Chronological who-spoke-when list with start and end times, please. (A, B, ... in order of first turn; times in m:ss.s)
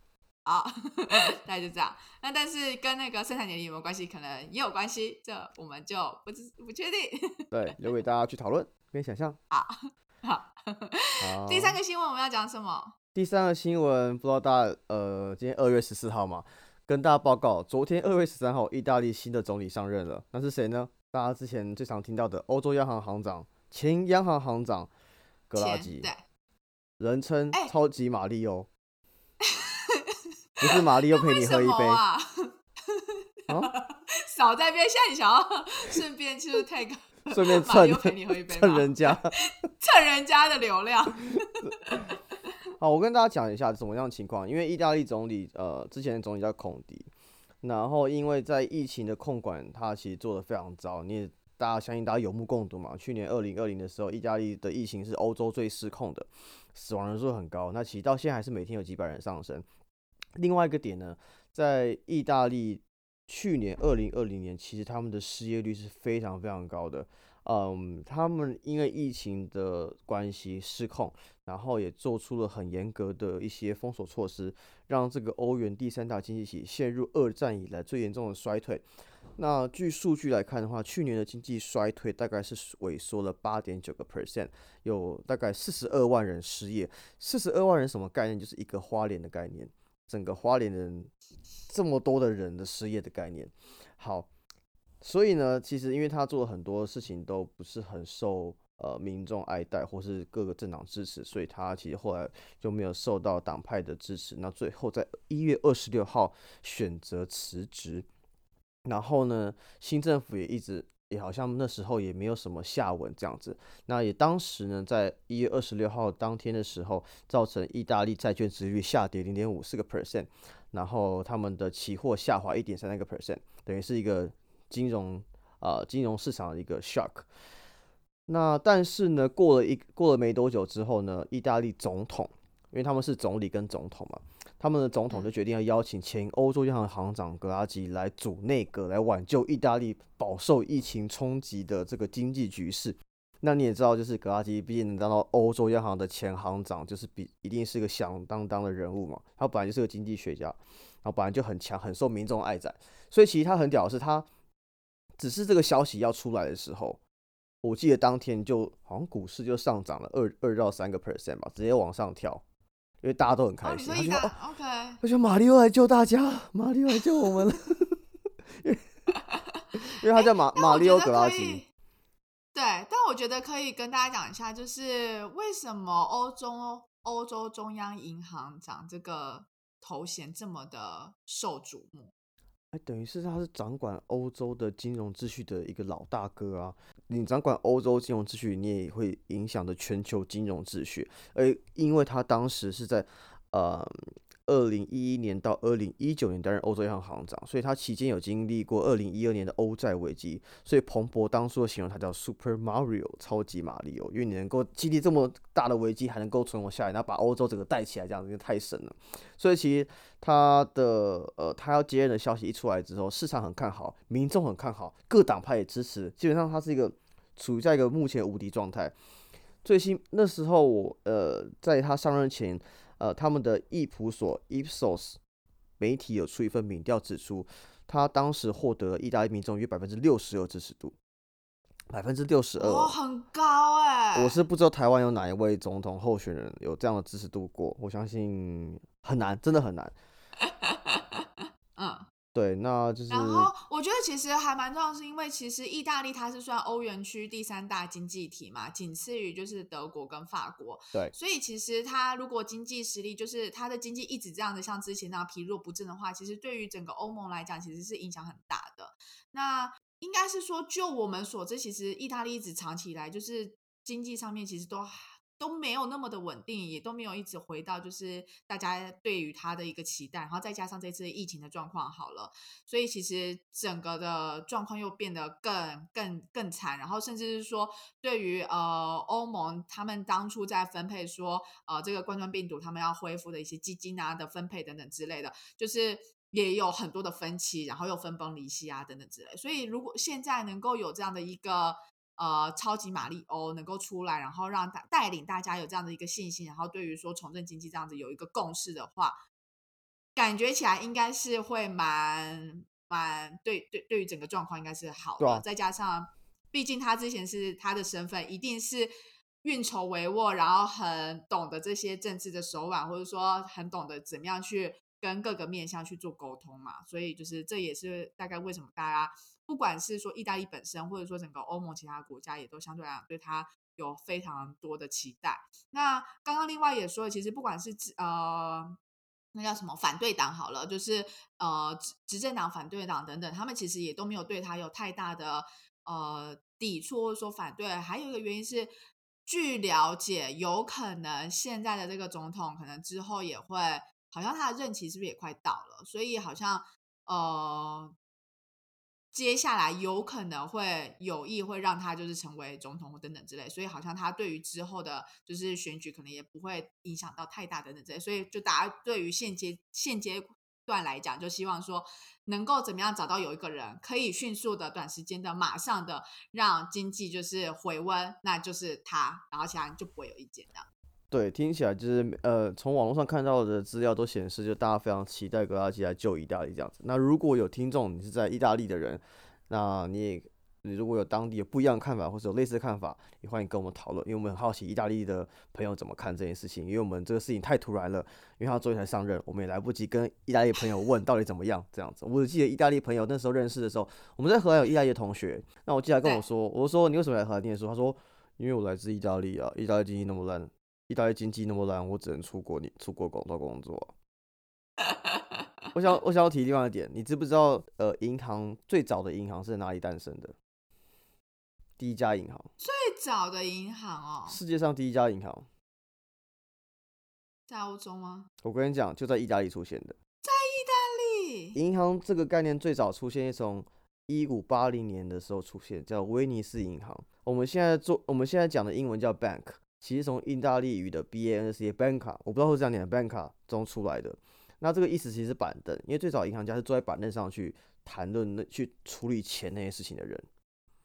0:00.5-0:07.5 A
0:07.5-0:09.4 B
0:09.5-0:12.9 A
0:11.2-0:11.8 B
0:13.2-0:24.9 B
0:25.5-0:26.1 B
0:25.6-0:26.2 A
0:27.0-0:28.7 B
0:29.4-0:42.1 A
0:30.6-0:32.0 B
0:37.3-0:39.3 B
0:42.8-0:47.1 B
0:47.6-0:59.6 B
1:00.4-1:18.8 B
1:19.4-1:31.1 B
1:31.7-1:34.3 B
1:35.0-1:48.1 B
1:48.9-2:07.3 B
2:08.3-2:34.3 B
2:35.2-2:37.0 B
2:37.6-2:42.4 B
2:43.0-2:44.3 B
2:43.6-2:45.0 A
2:45.0-2:48.0 B
2:48.6-2:48.9 B
2:49.1-2:51.7 A
2:49.8-2:51.6 B
2:52.5-3:02.1 A
3:02.7-3:38.9 B
3:39.6-3:45.2 B
3:45.8-3:51.0 B
3:51.9-3:53.0 B
3:52.6-3:54.4 A
3:54.2-3:59.9 B
4:00.5-4:01.2 A
4:01.8-4:02.1 A
4:02.4-4:03.5 B
4:03.1-4:59.2 A
5:00.2-5:08.9 A
5:09.4-5:28.8 A
5:29.4-5:38.7 A
5:39.3-5:47.9 A
5:49.1-6:10.7 A
6:11.1-6:43.9 B
6:44.8-6:45.4 A
6:45.7-6:50.4 B
6:51.8-6:52.5 B
6:52.6-6:54.4 A
6:54.3-6:55.5 B
6:57.5-6:58.3 A
6:58.4-7:00.0 B
7:00.2-7:01.6 A
7:01.6-7:20.3 B